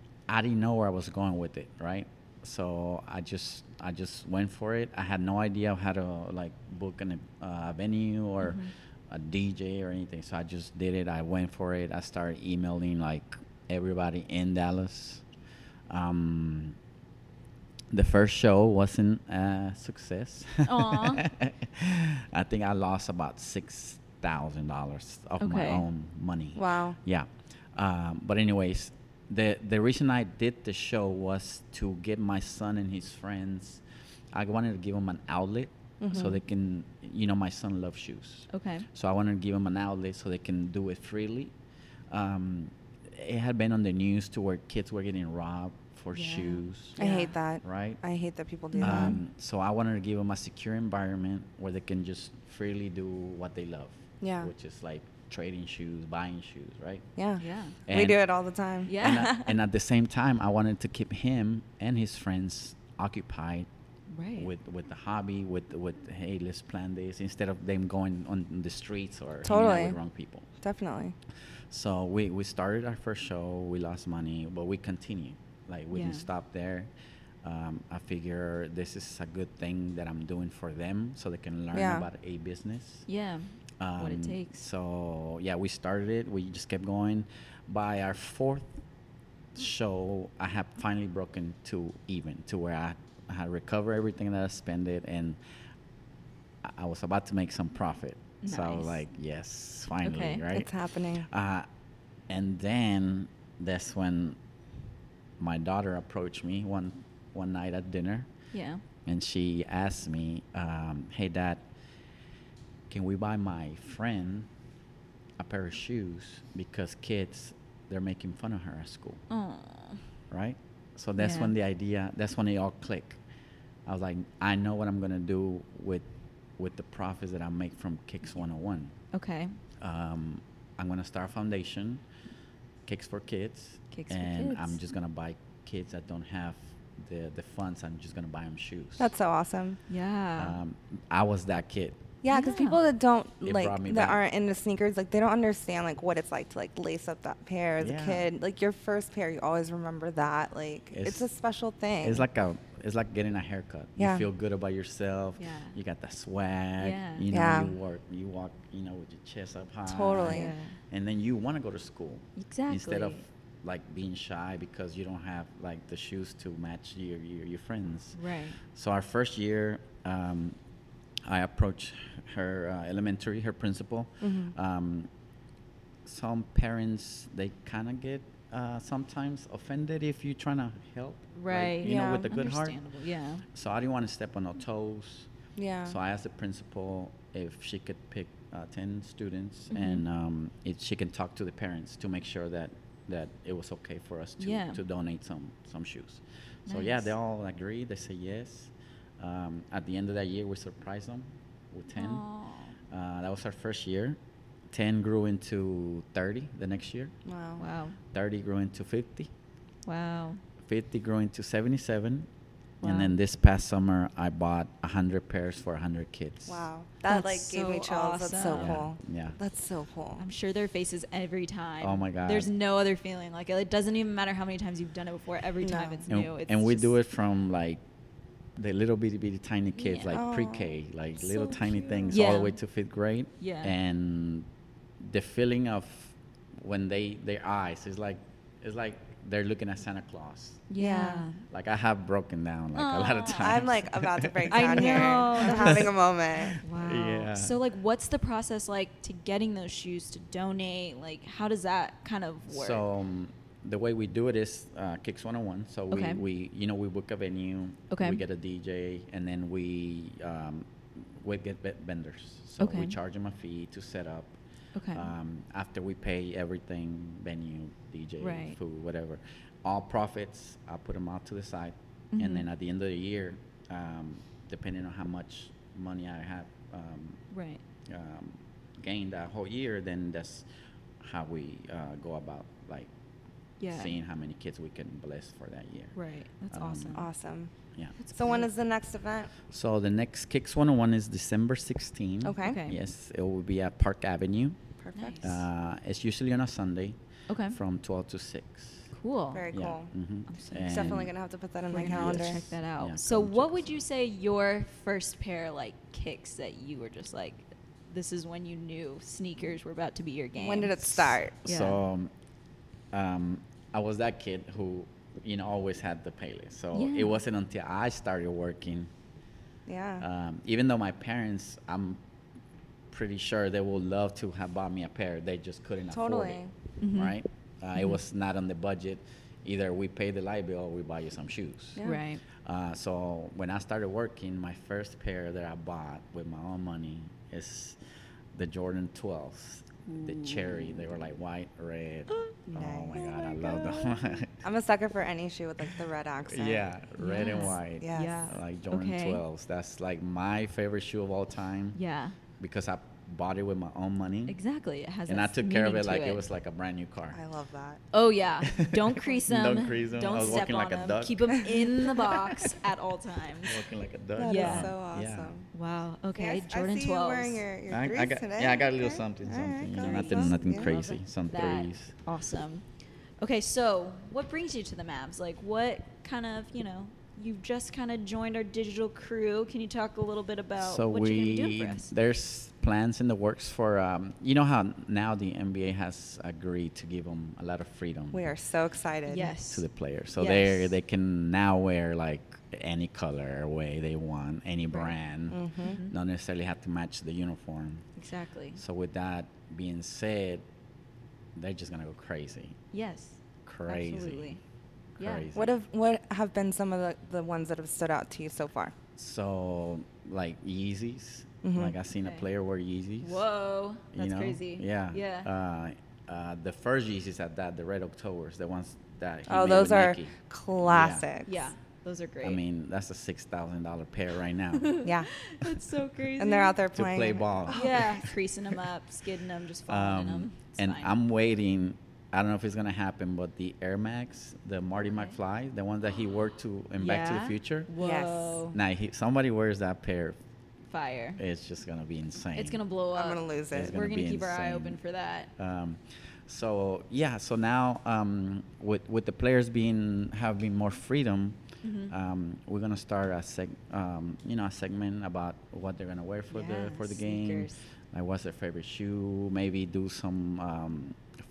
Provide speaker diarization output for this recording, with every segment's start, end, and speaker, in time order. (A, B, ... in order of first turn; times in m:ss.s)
0:00.3-0:15.2 A
0:08.4-0:08.7 B
0:15.9-0:16.8 A
0:17.9-0:33.8 A
0:20.6-0:21.2 B
0:25.4-0:25.8 B
0:26.6-0:27.0 C
0:34.3-0:41.5 A
0:36.0-0:36.3 C
0:36.1-0:36.4 B
0:38.5-0:38.9 B
0:42.1-0:47.0 A
0:46.1-0:47.3 B
0:47.0-0:49.2 C
0:47.6-0:48.0 A
0:48.7-0:49.2 B
0:48.8-0:57.1 A
0:54.2-0:54.5 C
0:57.2-0:59.2 C
0:57.4-0:57.8 B
0:57.9-0:58.2 A
0:58.9-0:59.5 B
0:59.0-1:03.7 A
1:04.1-1:04.5 B
1:04.4-1:10.5 A
1:09.4-1:10.0 C
1:10.6-1:11.1 C
1:11.7-1:16.9 A
1:15.9-1:16.3 B
1:17.4-1:23.0 A
1:21.7-1:22.0 C
1:23.1-1:24.6 B
1:23.8-1:28.7 A
1:29.5-1:35.4 A
1:36.6-1:41.7 A
1:38.4-1:39.0 B
1:40.0-1:40.4 B
1:40.5-1:41.3 C
1:42.3-1:44.4 A
1:45.4-1:48.3 A
1:48.5-1:48.8 B
1:49.0-1:51.6 A
1:52.9-1:54.5 A
1:55.4-1:59.2 A
1:59.3-2:00.0 B
2:00.3-2:03.2 A
2:01.2-2:01.5 B
2:03.8-2:06.0 A
2:06.6-2:08.9 A
2:09.1-2:09.6 B
2:09.8-2:12.0 A
2:12.8-2:19.1 A
2:13.9-2:14.8 B
2:19.0-2:19.8 C
2:19.9-2:20.6 B
2:20.4-2:22.1 A
2:22.2-2:32.3 C
2:22.3-2:22.8 B
2:23.4-2:24.2 A
2:27.8-2:28.3 A
2:30.9-2:31.3 A
2:32.0-2:48.2 A
2:34.0-2:34.2 C
2:35.4-2:35.8 B
2:36.8-2:37.2 B
2:37.3-2:37.7 C
2:39.9-2:40.5 C
2:40.2-2:40.8 B
2:42.4-2:43.2 B
2:48.1-2:48.6 B
2:48.7-2:50.6 A
2:51.2-2:55.1 A
2:54.2-2:54.5 C
2:56.0-3:02.9 A
3:01.3-3:03.4 B
3:01.8-3:02.3 C
3:03.5-3:05.3 A
3:05.6-3:06.0 C
3:05.9-3:22.2 A
3:09.7-3:10.0 B
3:14.4-3:14.8 B
3:16.6-3:17.1 B
3:21.9-3:22.8 B
3:22.9-3:24.2 A
3:24.7-3:27.1 A
3:27.2-3:27.6 C
3:27.6-3:28.0 B
3:28.1-3:29.3 A
3:29.8-3:30.4 B
3:30.6-3:32.3 A
3:32.8-3:33.1 B
3:32.8-3:36.6 A
3:36.5-3:40.3 C
3:37.0-3:38.8 B
3:38.4-3:39.4 A
3:40.2-3:46.9 B
3:41.8-3:42.5 A
3:45.6-3:46.0 C
3:46.1-3:47.8 A
3:48.6-3:54.5 A
3:49.7-3:50.1 B
3:50.1-3:52.3 C
3:52.1-3:52.6 B
3:53.4-3:53.7 B
3:55.0-4:00.7 A
4:00.7-4:01.4 B
4:00.8-4:01.3 C
4:01.4-4:07.6 A
4:02.7-4:03.7 B
4:03.3-4:06.6 C
4:04.5-4:05.9 B
4:06.6-4:12.8 B
4:12.5-4:24.4 A
4:15.9-4:16.2 B
4:17.9-4:18.2 B
4:22.6-4:23.0 B
4:24.7-4:25.1 B
4:24.9-4:37.2 A
4:28.2-4:28.6 B
4:32.1-4:32.5 B
4:37.3-4:37.6 B
4:37.9-4:40.4 A
4:41.0-4:42.9 A
4:43.6-4:44.0 B
4:43.7-4:45.9 A
4:45.9-4:47.0 B
4:46.5-4:47.0 A
4:46.9-4:47.5 C
4:48.0-4:48.5 B
4:48.1-4:49.3 C
4:49.5-4:54.6 A
4:52.2-4:52.6 C
4:52.4-4:52.8 B
4:54.8-4:55.4 C
4:54.9-4:55.4 B
4:55.2-4:57.0 A
4:57.3-4:57.6 B
4:57.5-4:58.9 A
4:58.9-4:59.5 B
4:59.3-4:59.9 C
4:59.5-5:01.1 A
5:00.3-5:01.0 B
5:00.6-5:02.4 C
5:01.7-5:10.8 B
5:01.8-5:03.8 A
5:10.4-5:11.4 C
5:10.8-5:12.1 A
5:11.4-5:11.8 B
5:12.9-5:18.9 A
5:16.7-5:17.2 B
5:19.7-5:20.0 C
5:20.0-5:22.0 A
5:22.9-5:26.4 A
5:25.9-5:26.5 C
5:26.8-5:27.2 B
5:26.9-5:31.8 A
5:31.8-5:32.0 C
5:31.8-5:32.2 B
5:32.4-5:37.8 A
5:38.3-5:44.4 A
5:39.8-5:41.0 B
5:42.1-5:42.3 B
5:42.5-5:43.9 C
5:43.0-5:43.8 B
5:44.4-5:48.2 C
5:46.2-5:51.8 A
5:47.0-5:49.2 B
5:51.7-5:52.2 B
5:52.4-5:54.4 A
5:54.3-5:56.2 B
5:55.1-5:57.2 A
5:57.1-5:57.8 C
5:57.9-6:03.6 B
5:58.4-6:02.6 A
6:03.4-6:05.3 A
6:04.2-6:05.5 C
6:04.2-6:04.7 B
6:05.5-6:07.4 B
6:06.2-6:10.8 C
6:07.7-6:11.9 A
6:09.8-6:12.6 B
6:13.2-6:21.9 B
6:20.6-6:28.2 A
6:28.1-6:29.3 C
6:29.1-6:30.7 B
6:29.5-6:37.9 A
6:35.3-6:35.8 C
6:35.6-6:35.9 B
6:38.0-6:38.6 B
6:38.6-6:40.4 A
6:41.4-6:42.6 A
6:42.7-6:44.4 B
6:43.4-6:44.3 A
6:45.0-6:45.5 A
6:45.0-6:45.2 B
6:45.3-6:48.7 C
6:49.0-6:53.2 A
6:51.4-6:51.8 C
6:51.9-6:52.2 B
6:53.0-6:55.3 B
6:53.9-7:01.1 A
6:59.3-7:01.4 C
7:01.2-7:02.4 B
7:02.2-7:04.8 A
7:04.5-7:06.6 B
7:06.2-7:08.0 C
7:06.7-7:08.1 A
7:07.5-7:10.9 B
7:09.7-7:17.7 A
7:14.9-7:15.2 B
7:16.8-7:18.6 B
7:17.8-7:18.4 C
7:18.5-7:20.2 A
7:20.7-7:21.2 B
7:21.2-7:22.6 A
7:22.3-7:25.3 B
7:22.9-7:23.7 C
7:23.5-7:24.8 A
7:25.4-7:31.4 A
7:31.6-7:31.9 B
7:31.9-7:41.1 A
7:36.3-7:37.6 B